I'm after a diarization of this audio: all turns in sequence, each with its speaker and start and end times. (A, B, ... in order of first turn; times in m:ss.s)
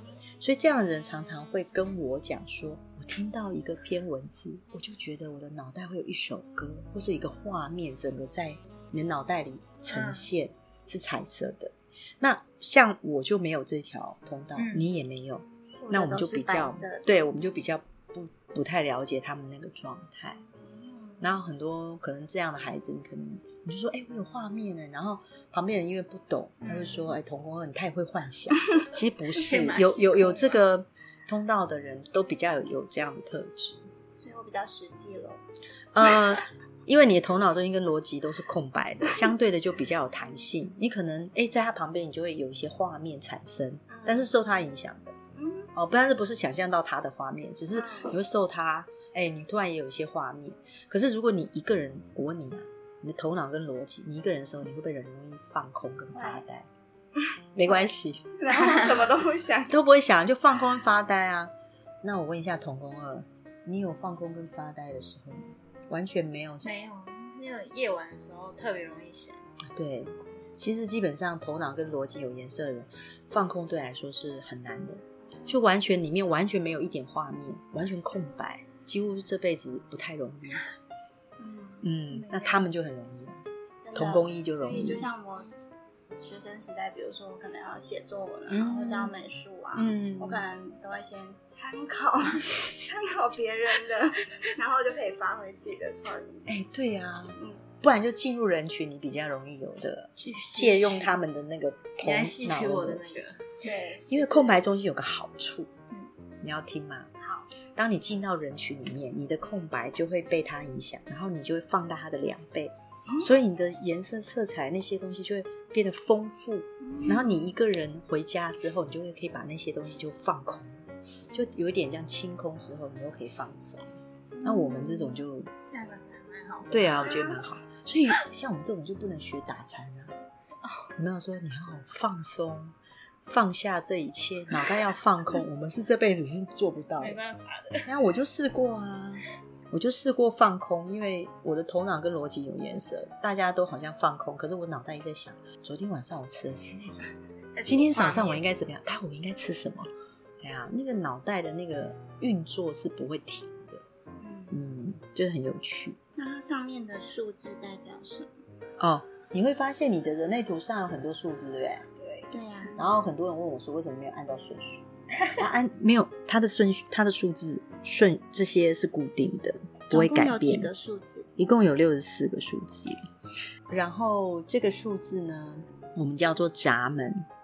0:00.4-0:20.4 A
0:09.9-0:10.3 B
0:14.6-0:14.9 B
0:15.8-0:17.0 C
0:20.5-0:21.2 C
0:21.2-0:33.8 A
0:26.6-0:27.1 B
0:29.3-0:30.7 B
0:34.2-0:35.4 C
0:35.9-0:45.2 A
0:43.9-0:44.3 C
0:45.4-0:45.7 C
0:45.7-0:56.7 A
0:47.7-0:48.1 C
0:56.1-0:56.4 C
0:57.6-0:58.3 A
0:58.4-0:59.8 C
0:59.7-1:06.7 A
1:06.6-1:09.4 B
1:09.6-1:20.6 A
1:21.4-1:21.9 C
1:21.8-1:25.0 A
1:22.1-1:22.6 B
1:23.8-1:25.5 C
1:26.1-1:36.5 C
1:28.5-1:29.2 A
1:29.7-1:30.4 A
1:36.5-1:43.3 A
1:40.2-1:41.2 B
1:42.0-1:43.4 B
1:43.6-1:44.6 C
1:44.1-1:45.7 A
1:46.4-1:47.1 A
1:47.2-1:47.5 C
1:47.7-2:03.9 A
1:53.1-1:53.3 C
1:56.8-1:57.3 C
2:04.3-2:05.2 C
2:04.4-2:05.5 A
2:05.7-2:07.2 B
2:06.7-2:10.2 A
2:07.0-2:07.4 C
2:11.0-2:17.2 A
2:17.0-2:17.9 B
2:17.9-2:27.0 A
2:27.6-2:28.4 B
2:27.6-2:29.9 A
2:30.4-2:33.8 A
2:34.2-2:34.6 C
2:34.5-2:36.0 A
2:36.2-2:38.3 C
2:38.8-2:41.9 A
2:42.0-2:42.3 B
2:42.3-2:42.8 C
2:42.8-2:50.7 A
2:49.9-2:51.3 C
2:51.4-2:53.0 A
2:53.7-2:57.3 A